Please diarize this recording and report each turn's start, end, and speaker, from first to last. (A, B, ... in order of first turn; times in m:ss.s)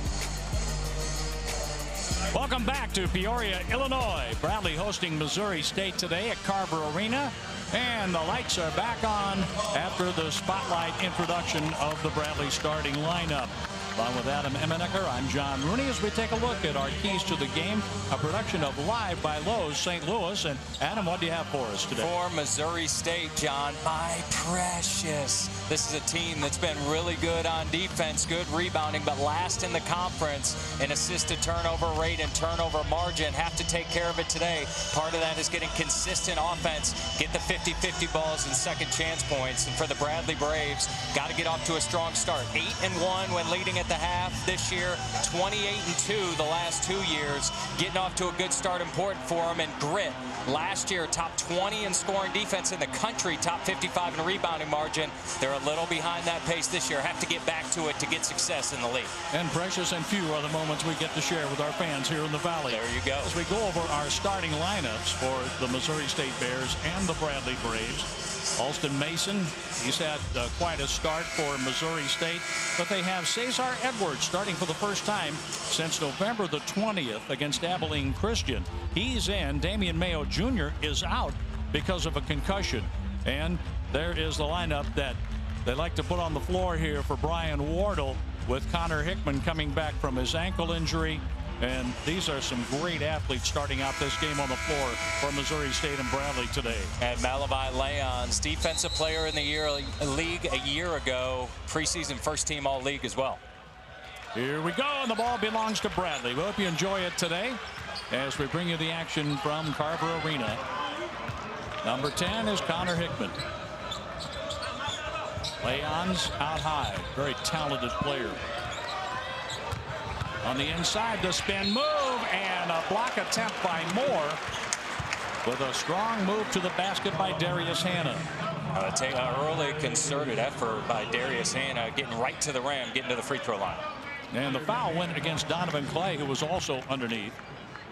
0:02.3-0:22.1 A
0:22.0-0:59.1 B
0:59.3-1:36.9 A
1:02.7-1:03.3 B
1:37.0-1:43.4 B
1:44.4-1:47.6 A
1:48.1-1:50.6 A
1:51.8-1:53.4 A
1:55.6-1:58.4 A
2:00.4-2:04.4 A
2:05.4-2:08.3 A
2:08.7-2:13.9 B
2:14.3-2:17.4 A